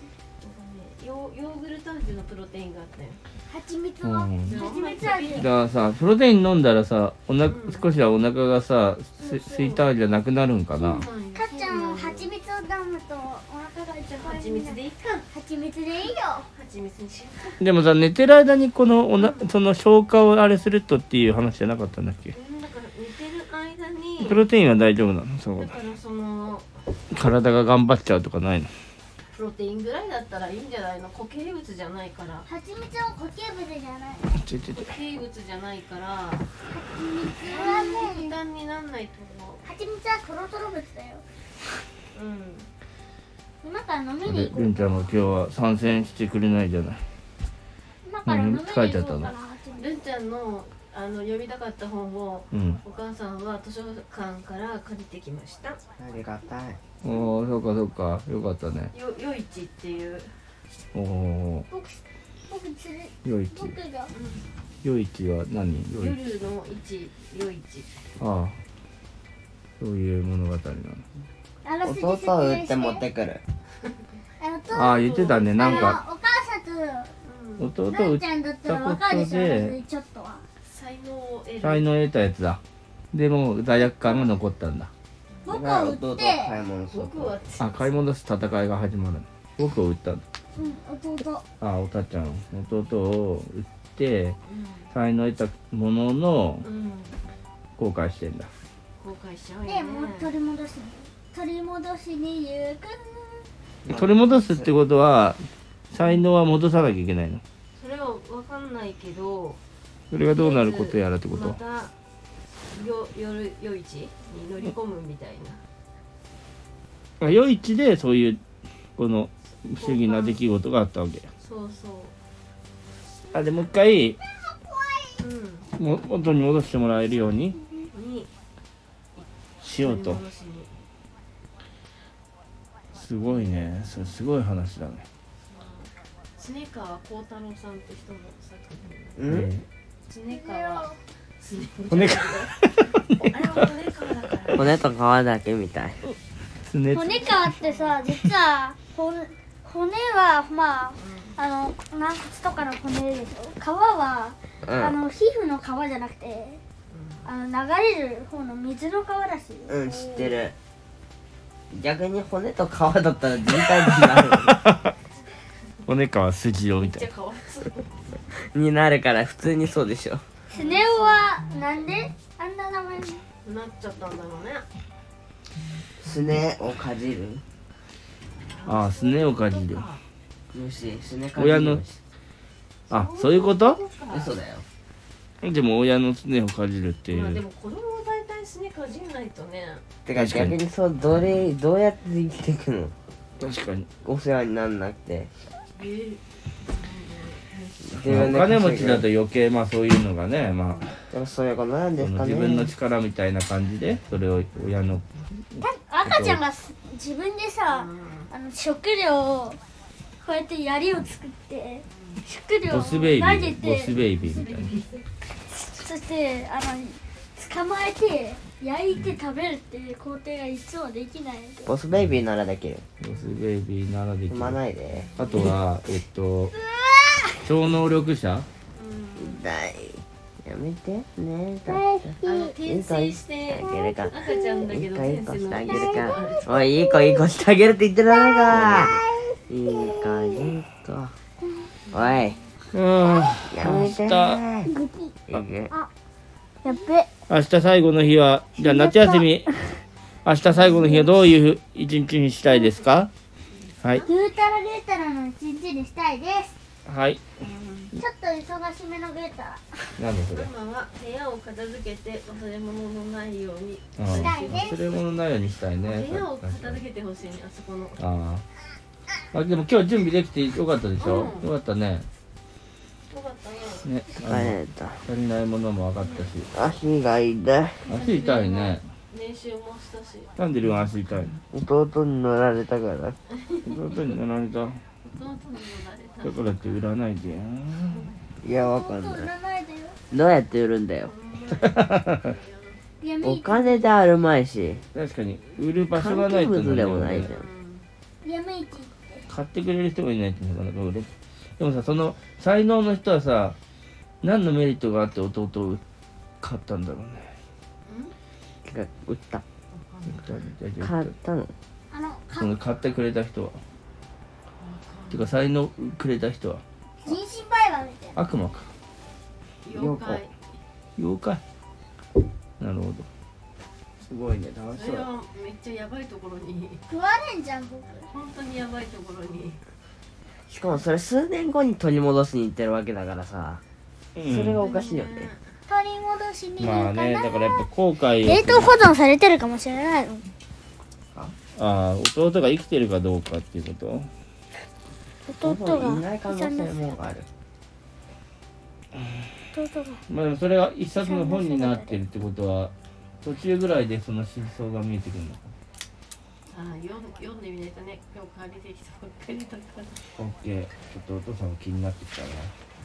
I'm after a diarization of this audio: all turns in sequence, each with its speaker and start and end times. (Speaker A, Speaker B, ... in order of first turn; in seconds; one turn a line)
Speaker A: 0.4-3.2
Speaker B: 3.5-5.5
Speaker C: 4.0-4.6
Speaker A: 4.5-5.5
Speaker C: 5.4-11.1
Speaker A: 7.5-7.9
Speaker A: 9.2-9.8
Speaker A: 10.8-12.3
Speaker B: 11.3-16.5
Speaker A: 14.1-15.3
Speaker A: 16.1-17.6
Speaker C: 17.6-22.3
Speaker A: 19.2-19.5
Speaker A: 22.3-24.4
Speaker C: 24.2-25.7
Speaker A: 25.6-26.8
Speaker C: 27.1-28.7
Speaker A: 29.3-32.5
Speaker B: 32.5-34.4
Speaker C: 34.4-34.9
Speaker A: 34.7-36.5
Speaker B: 36.7-38.4
Speaker A: 37.5-39.6
Speaker B: 39.6-41.2
Speaker A: 42.1-42.7
Speaker B: 43.6-45.3
Speaker C: 44.3-47.0
Speaker B: 48.0-50.0
Speaker C: 48.3-49.3
Speaker A: 49.8-55.8
Speaker C: 52.5-52.8
Speaker D: 56.0-56.8
Speaker C: 57.0-58.9
Speaker A: 58.9-60.5
Speaker C: 60.9-61.7
Speaker B: 61.7-64.1
Speaker C: 63.2-63.8
Speaker A: 64.1-64.5
Speaker C: 64.8-66.2
Speaker A: 65.9-68.0
Speaker C: 68.2-68.6
Speaker C: 69.8-71.0
Speaker B: 71.7-73.0
Speaker D: 71.8-73.4
Speaker B: 74.4-77.1
Speaker C: 74.7-76.0
Speaker A: 74.9-76.0
Speaker A: 77.2-77.7
Speaker C: 77.6-79.8
Speaker B: 77.9-80.4
Speaker A: 80.6-81.9
Speaker C: 81.6-82.6
Speaker C: 83.1-84.9
Speaker B: 84.0-84.3
Speaker B: 85.4-86.6
Speaker D: 85.5-87.3
Speaker A: 86.9-88.1
Speaker C: 87.6-90.2
Speaker B: 90.5-91.5
Speaker C: 91.6-94.4
Speaker A: 94.5-94.9
Speaker C: 94.9-96.7
Speaker A: 96.6-97.2
Speaker C: 97.8-98.5
Speaker A: 99.0-100.3
Speaker B: 99.7-103.5
Speaker D: 103.8-104.7
Speaker C: 103.9-107.4
Speaker A: 107.8-109.6
Speaker C: 110.1-111.6
Speaker A: 110.2-111.9
Speaker A: 112.7-115.6
Speaker C: 117.2-118.4
Speaker C: 119.0-121.3
Speaker A: 119.8-120.4
Speaker A: 121.4-122.2
Speaker C: 123.3-124.2
Speaker B: 124.7-125.1
Speaker A: 125.2-125.7
Speaker C: 125.8-127.6
Speaker B: 127.6-127.9
Speaker A: 127.9-128.3
Speaker A: 129.2-130.8
Speaker C: 129.6-130.2
Speaker C: 132.9-135.1
Speaker A: 135.5-139.2
Speaker D: 139.2-139.5
Speaker C: 139.3-139.7
Speaker A: 140.0-144.8
Speaker B: 140.3-141.0
Speaker C: 141.9-143.4
Speaker D: 144.6-146.1
Speaker C: 146.6-147.5
Speaker B: 146.9-156.6
Speaker A: 147.2-148.0
Speaker A: 151.0-151.4
Speaker D: 154.6-155.0
Speaker A: 156.9-157.3
Speaker B: 157.2-160.4
Speaker D: 159.7-160.6
Speaker D: 161.7-164.6
Speaker C: 164.5-164.9
Speaker C: 165.9-167.1
Speaker A: 166.8-168.1
Speaker D: 168.3-170.2
Speaker A: 170.5-171.3
Speaker B: 170.5-173.2
Speaker A: 173.4-174.7
Speaker D: 176.0-177.4
Speaker A: 178.5-180.0
Speaker C: 178.7-179.8
Speaker D: 180.5-182.0
Speaker C: 181.3-181.8
Speaker A: 182.9-184.3
Speaker C: 182.9-183.8
Speaker D: 184.1-184.6
Speaker C: 185.4-187.4
Speaker A: 187.1-189.8
Speaker D: 190.1-192.9
Speaker C: 190.2-190.6
Speaker C: 193.4-194.0
Speaker D: 194.0-195.3
Speaker A: 195.8-197.9
Speaker D: 197.9-199.1
Speaker C: 198.0-200.9
Speaker D: 201.1-202.7
Speaker C: 202.0-205.0
Speaker B: 205.6-209.6
Speaker C: 206.0-206.4
Speaker A: 207.7-208.3
Speaker B: 210.2-214.4
Speaker A: 211.9-212.2
Speaker C: 212.7-214.7
Speaker A: 214.3-215.1
Speaker B: 215.5-221.7
Speaker D: 221.7-222.8
Speaker C: 223.0-224.6
Speaker A: 223.1-223.4
Speaker D: 224.3-225.1
Speaker A: 225.0-225.6
Speaker C: 225.2-226.6
Speaker B: 226.5-227.5
Speaker C: 227.4-228.5
Speaker A: 228.7-229.4
Speaker D: 229.2-241.1
Speaker B: 231.7-232.6
Speaker A: 232.2-236.7
Speaker B: 235.6-237.2
Speaker B: 238.1-240.5
Speaker C: 238.5-238.9
Speaker A: 241.9-242.4
Speaker D: 241.9-242.4
Speaker C: 242.7-244.4
Speaker D: 243.5-244.7
Speaker B: 244.7-245.2
Speaker D: 245.3-245.7
Speaker B: 246.6-247.1
Speaker C: 247.3-249.5
Speaker B: 248.6-249.8
Speaker C: 250.2-253.1
Speaker B: 250.5-251.2
Speaker A: 253.5-254.2
Speaker B: 254.0-256.6
Speaker C: 256.9-257.2
Speaker A: 257.4-257.9
Speaker B: 257.9-260.0
Speaker C: 260.0-260.5
Speaker A: 260.3-265.0
Speaker C: 264.0-266.8
Speaker B: 264.1-264.8
Speaker A: 265.8-268.0
Speaker C: 268.0-268.4
Speaker C: 269.3-272.1
Speaker A: 271.0-271.5
Speaker A: 273.1-273.9
Speaker C: 273.8-276.5
Speaker D: 274.2-275.0
Speaker A: 276.0-276.3
Speaker D: 276.5-277.9
Speaker C: 277.9-278.9
Speaker A: 277.9-280.3
Speaker C: 280.4-281.3
Speaker D: 281.5-283.2
Speaker A: 283.4-284.1
Speaker C: 283.7-284.8
Speaker A: 285.0-286.8
Speaker C: 286.2-288.1
Speaker A: 287.9-288.1
Speaker D: 288.4-289.3
Speaker B: 288.5-290.0
Speaker D: 290.1-291.1
Speaker A: 291.0-292.8
Speaker B: 293.0-293.8
Speaker D: 293.2-294.9
Speaker C: 294.9-297.4
Speaker D: 295.9-297.4
Speaker A: 297.1-297.9
Speaker B: 298.2-299.3
Speaker C: 299.3-303.6
Speaker C: 304.2-305.8
Speaker C: 306.4-307.3
Speaker A: 307.9-308.1
Speaker D: 308.6-309.4
Speaker A: 309.7-310.4
Speaker C: 310.1-311.1
Speaker D: 310.8-311.5
Speaker B: 311.9-312.6
Speaker C: 312.4-313.6
Speaker A: 314.6-315.4
Speaker C: 315.1-316.6
Speaker B: 317.0-318.2
Speaker C: 318.2-318.7
Speaker A: 319.6-320.4
Speaker D: 319.7-320.2
Speaker C: 321.0-321.4
Speaker C: 322.6-323.1
Speaker C: 324.1-325.1
Speaker A: 324.7-326.8
Speaker B: 326.9-328.1
Speaker A: 328.1-329.6
Speaker D: 330.5-333.6
Speaker C: 334.2-334.6
Speaker D: 334.2-335.3
Speaker A: 334.6-335.6
Speaker B: 335.7-337.7
Speaker C: 336.6-338.8
Speaker B: 338.2-340.3
Speaker C: 341.6-344.1
Speaker B: 345.3-346.9
Speaker D: 345.4-347.3
Speaker B: 349.5-350.0
Speaker C: 350.1-352.7
Speaker B: 351.0-352.0
Speaker C: 353.2-355.5
Speaker A: 356.5-360.0
Speaker C: 360.2-362.6